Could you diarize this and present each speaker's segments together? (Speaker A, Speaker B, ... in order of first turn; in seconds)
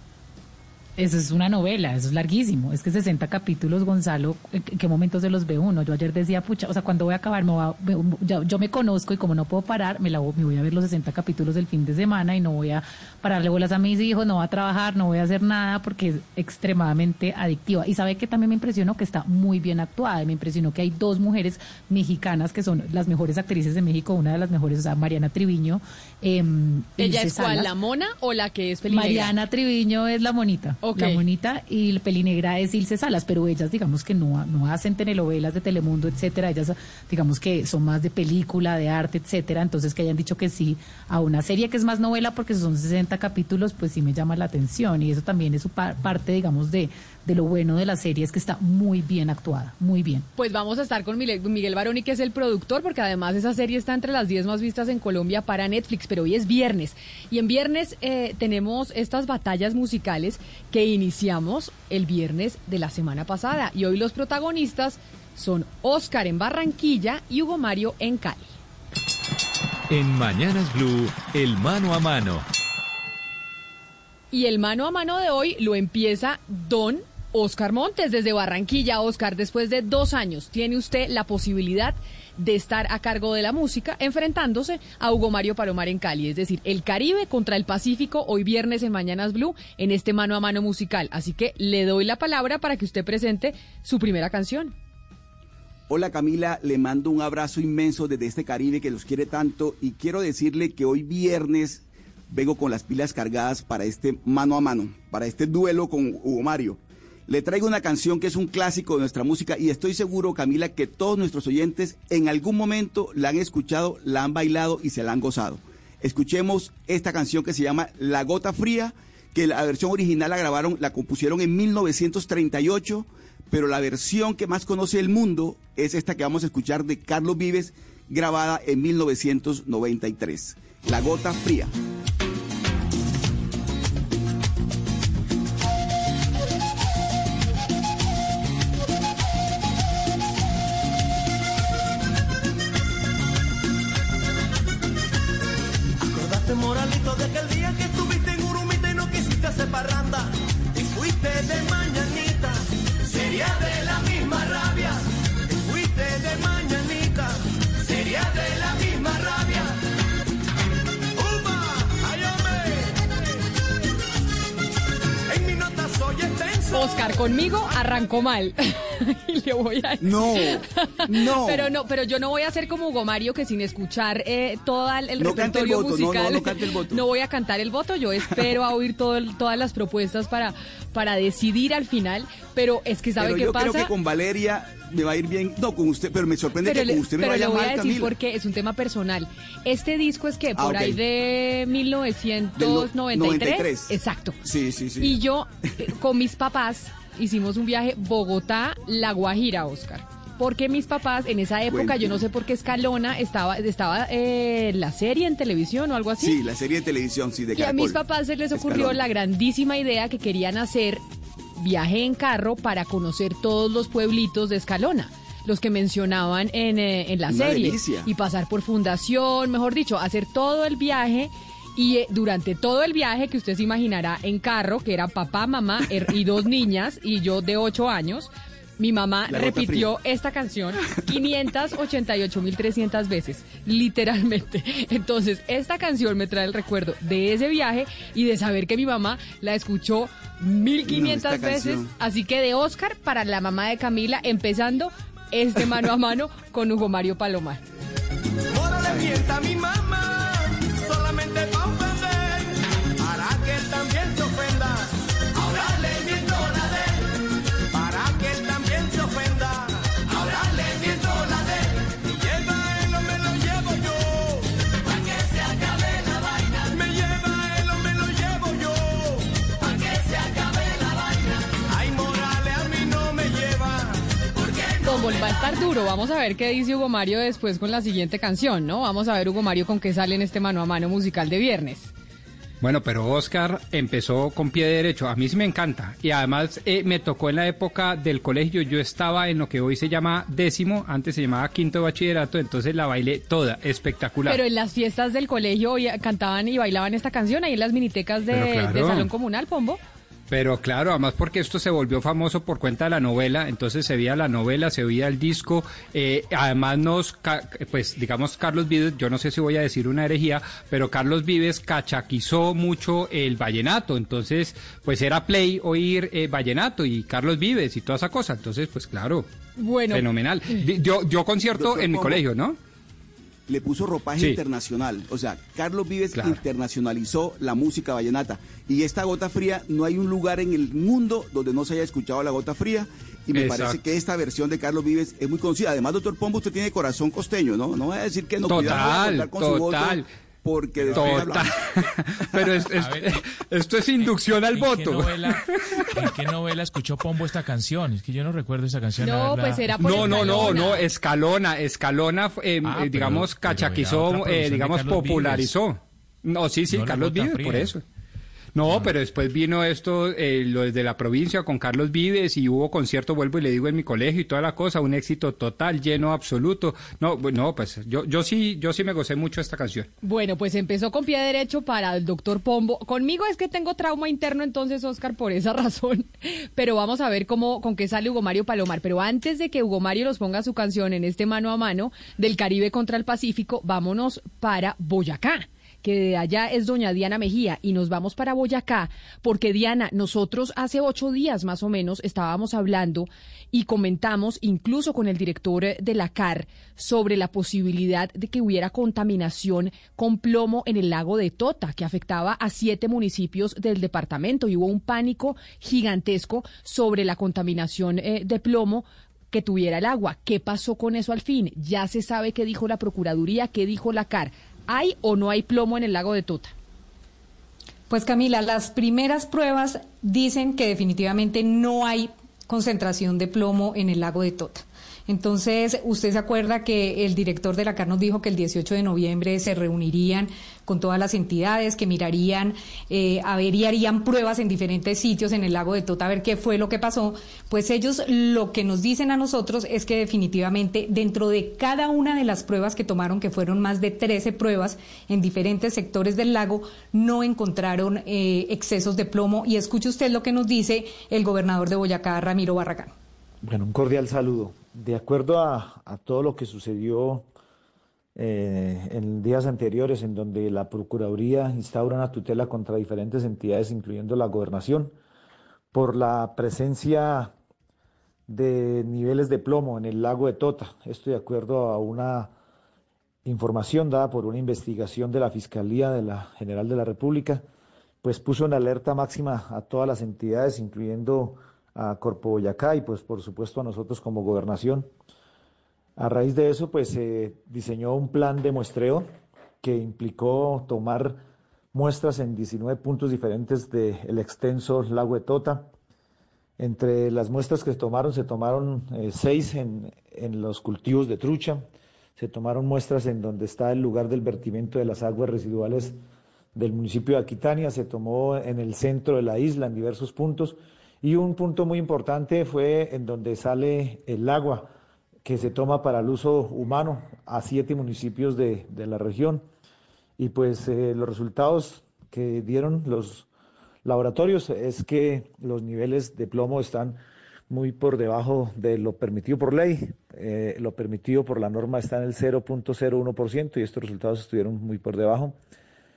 Speaker A: 1.0-27.7, 28.9-50.3
Speaker B: 27.0-29.3, 30.8-31.2, 50.4-68.5, 74.3-94.7, 166.7-183.9, 186.6-194.4, 195.0-206.4, 207.6-211.0, 211.6-247.6, 274.8-281.9, 294.3-299.8, 319.6-320.1, 349.0-350.9, 370.0-416.5
Speaker C: 69.9-72.5
Speaker D: 95.9-131.7, 170.0-171.7, 175.2-177.0, 183.2-188.1, 190.6-191.0, 192.6-195.2, 201.7-202.2, 206.2-208.0, 208.5-209.0, 217.3-218.1, 229.3-229.9, 240.9-241.9, 321.5-322.2, 323.5-341.6
Speaker E: 146.0-159.8, 161.2-163.0, 165.3-168.1, 248.5-257.0, 257.7-274.0, 274.5-274.9
Speaker F: 282.6-294.4, 298.3-299.1, 300.3-319.3, 319.9-322.6, 326.1-326.4, 333.4-333.8, 338.5-340.1, 340.9-345.3, 349.8-357.8, 358.6-369.9
Speaker G: 340.8-341.4, 342.7-343.2, 344.0-350.8, 352.6-355.5, 356.7-357.8, 358.6-359.0
Speaker H: 417.9-452.9
Speaker I: 453.4-457.3, 458.1-464.9, 465.7-467.3, 468.3-472.3, 473.2-477.4, 478.0-484.9, 486.0-489.1, 489.6-495.7, 496.6-506.0, 506.6-514.7, 515.2-519.5, 520.2-523.3, 523.8-535.4